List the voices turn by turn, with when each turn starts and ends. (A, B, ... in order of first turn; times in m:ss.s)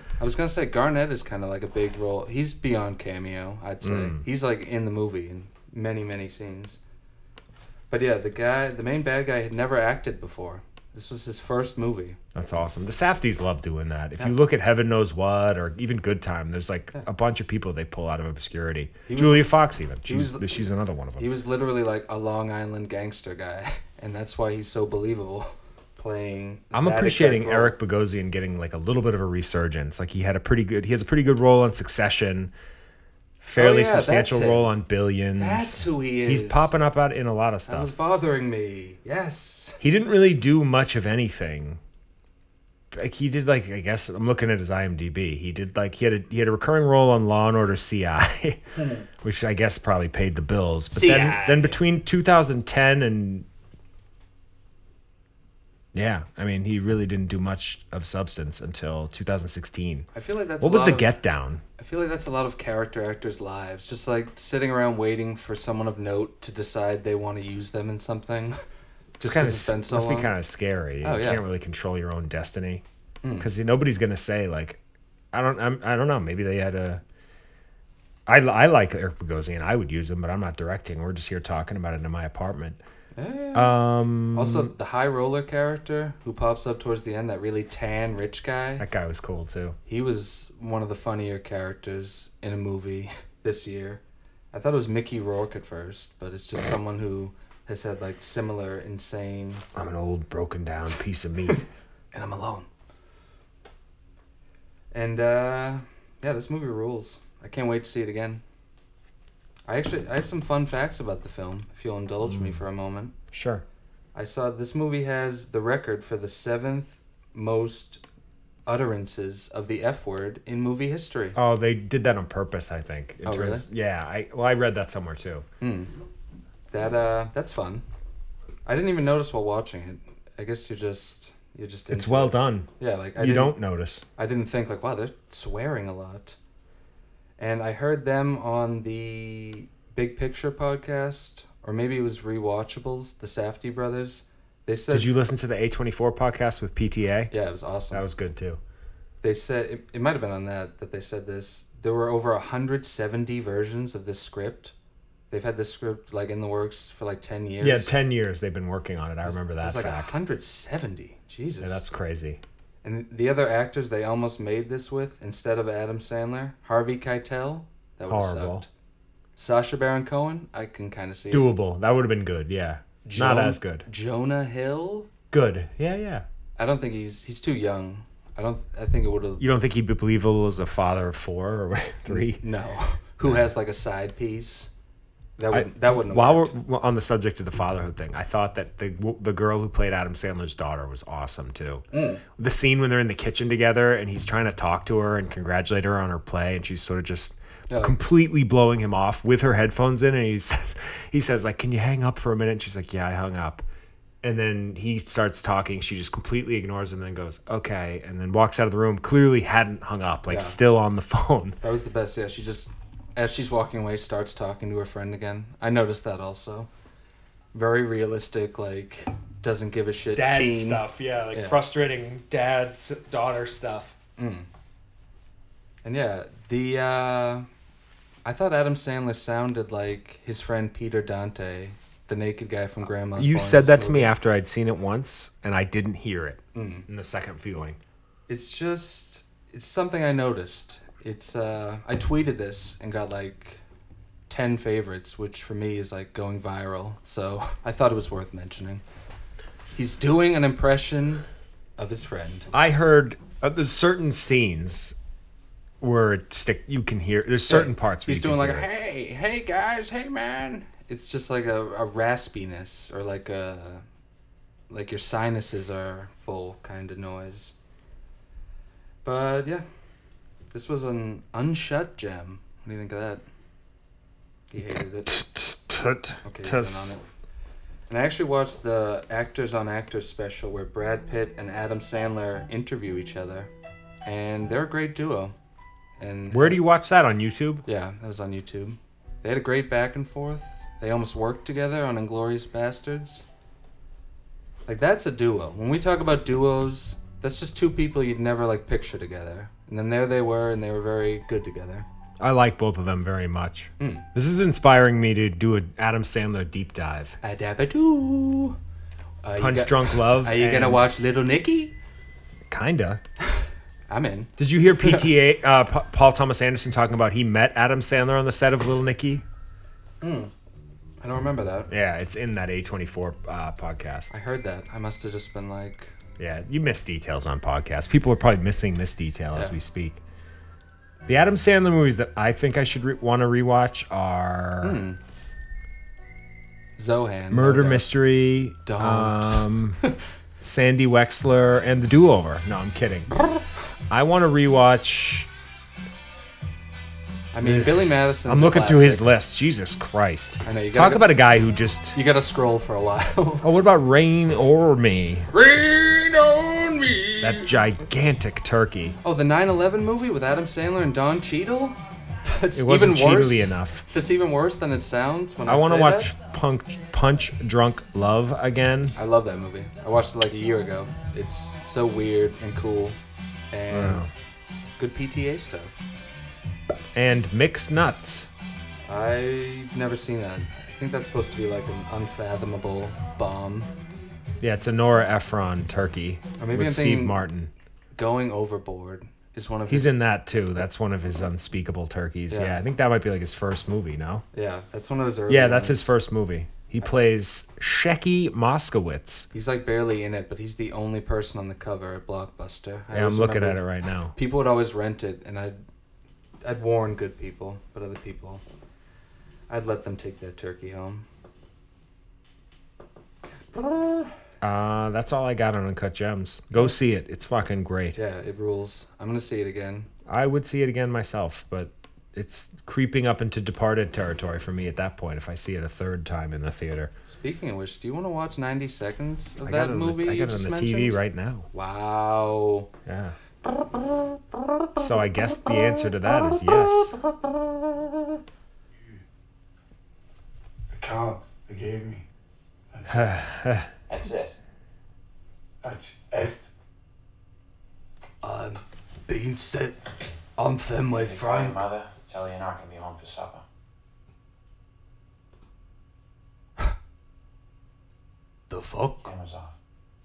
0:00.2-0:06.8 A
0:03.8-0:04.2 B
0:07.9-0:12.2 A
0:12.3-0:21.2 B
0:19.1-0:19.5 A
0:20.0-0:20.5 A
0:21.2-0:27.8 A
0:26.7-0:32.5 B
0:33.4-0:37.9 B
0:33.5-0:34.7 A
0:35.4-0:36.7 A
0:37.7-0:39.8 A
0:39.8-0:41.8 B
0:42.9-0:53.4 B
0:48.8-0:49.0 A
0:50.9-0:51.8 A
0:55.9-1:00.1 B
1:00.1-1:01.2 A
1:00.6-1:01.6 B
1:01.8-1:08.6 A
1:09.2-1:10.3 A
1:09.2-1:12.8 B
1:11.0-1:11.4 A
1:13.2-1:13.5 A
1:13.4-1:14.8 B
1:15.3-1:17.0 B
1:18.3-1:22.8 B
1:23.2-1:28.8 A
1:23.5-1:24.7 B
1:28.8-1:29.8 B
1:29.9-1:34.0 A
1:34.5-1:39.6 A
1:39.7-1:41.6 B
1:42.1-1:42.7 A
1:44.9-1:48.4 A
1:49.7-1:53.1 A
1:52.2-1:52.6 B
1:53.3-1:53.6 B
1:54.1-1:58.0 A
1:58.7-2:01.4 A
2:01.3-2:05.4 B
2:03.2-2:03.6 A
2:05.6-2:05.9 A
2:06.7-2:07.8 A
2:08.6-2:13.6 A
2:11.9-2:14.0 B
2:14.2-2:16.4 A
2:17.4-2:25.1 A
2:24.9-2:27.3 B
2:27.3-2:28.0 A
2:27.9-2:28.6 B
2:29.2-2:34.7 A
2:35.3-2:38.0 A
2:37.6-2:40.2 B
2:39.2-2:41.8 A
2:41.6-2:42.4 B
2:42.8-2:48.7 A
2:48.1-2:48.6 B
2:49.4-2:51.5 A
2:51.3-2:53.8 B
2:53.0-2:55.1 A
2:55.3-2:56.2 B
2:56.6-2:59.4 A
2:59.4-3:02.4 B
3:02.1-3:04.7 A
3:05.4-3:06.6 A
3:05.5-3:23.6 B
3:11.9-3:12.2 A
3:17.7-3:18.0 A
3:24.2-3:31.6 B
3:30.3-3:30.6 A
3:31.6-3:36.7 A
3:37.5-3:41.6 A
3:40.1-3:43.9 B
3:44.2-3:44.5 A
3:45.8-3:47.4 A
3:48.2-3:54.1 A
3:53.2-3:57.8 B
3:56.5-3:56.8 A
3:58.3-4:03.6 A
4:04.3-4:08.8 A
4:09.7-4:11.2 A
4:11.8-4:12.5 A
4:12.5-4:15.0 B
4:15.8-4:18.6 B
4:17.5-4:23.8 A
4:24.7-4:27.5 A
4:29.0-4:29.6 A
4:30.5-4:33.2 A
4:34.5-4:35.2 A
4:35.1-4:37.0 B
4:36.2-4:37.0 A
4:37.9-4:43.5 A
4:44.0-4:45.3 A
4:46.0-4:46.6 A
4:46.3-4:47.6 B
4:47.6-4:53.2 A
4:54.7-5:01.8 A
5:02.2-5:07.2 B
5:03.8-5:04.1 A
5:07.2-5:08.6 A
5:09.2-5:11.7 A
5:09.4-5:10.9 B
5:12.5-5:13.0 B
5:13.3-5:15.1 A
5:14.4-5:19.2 B
5:20.0-5:20.3 A
5:21.0-5:21.7 A
5:21.7-5:24.1 B
5:24.1-5:25.9 A
5:26.2-5:30.0 B
5:31.1-5:34.8 B
5:34.6-5:35.0 A
5:36.8-5:37.9 A
5:37.3-5:39.8 B
5:38.6-5:39.5 A
5:40.4-5:43.1 B
5:43.9-5:45.3 B
5:47.3-5:49.1 A
5:47.4-5:52.0 B
5:50.4-5:51.1 A
5:51.9-5:53.5 A
5:53.4-5:55.3 B
5:55.3-5:57.6 A
5:57.2-5:59.0 B
5:59.0-6:06.1 A
6:02.5-6:03.8 B
6:05.4-6:08.9 B
6:08.9-6:13.0 A
6:13.5-6:14.0 A
6:13.7-6:14.1 B
6:14.8-6:15.8 A
6:16.9-6:18.3 B
6:18.8-6:23.7 A
6:24.4-6:27.5 B
6:26.4-6:27.2 A
6:28.0-6:29.9 A
6:29.7-6:34.2 B
6:32.3-6:32.6 A
6:34.3-6:35.9 A
6:35.3-6:39.3 B
6:39.3-6:43.6 A
6:42.9-6:44.1 B
6:44.1-6:45.6 A
6:46.4-6:48.4 A
6:49.5-6:51.0 A
6:53.5-6:54.1 A
6:54.4-6:58.0 B
6:58.0-6:59.9 A
7:00.1-7:06.9 B
7:07.0-7:11.0 A
7:09.4-7:11.5 B
7:11.5-7:12.7 A
7:12.8-7:13.2 B
7:14.8-7:17.0 B
7:20.7-7:22.0 C
7:22.7-7:23.2 C
7:22.9-7:23.7 B
7:23.9-7:24.3 D
7:25.6-7:26.4 C
7:28.2-7:29.8 A
7:30.4-7:31.7 A
7:30.9-7:33.4 D
7:38.5-7:39.1 A
7:39.0-7:39.6 D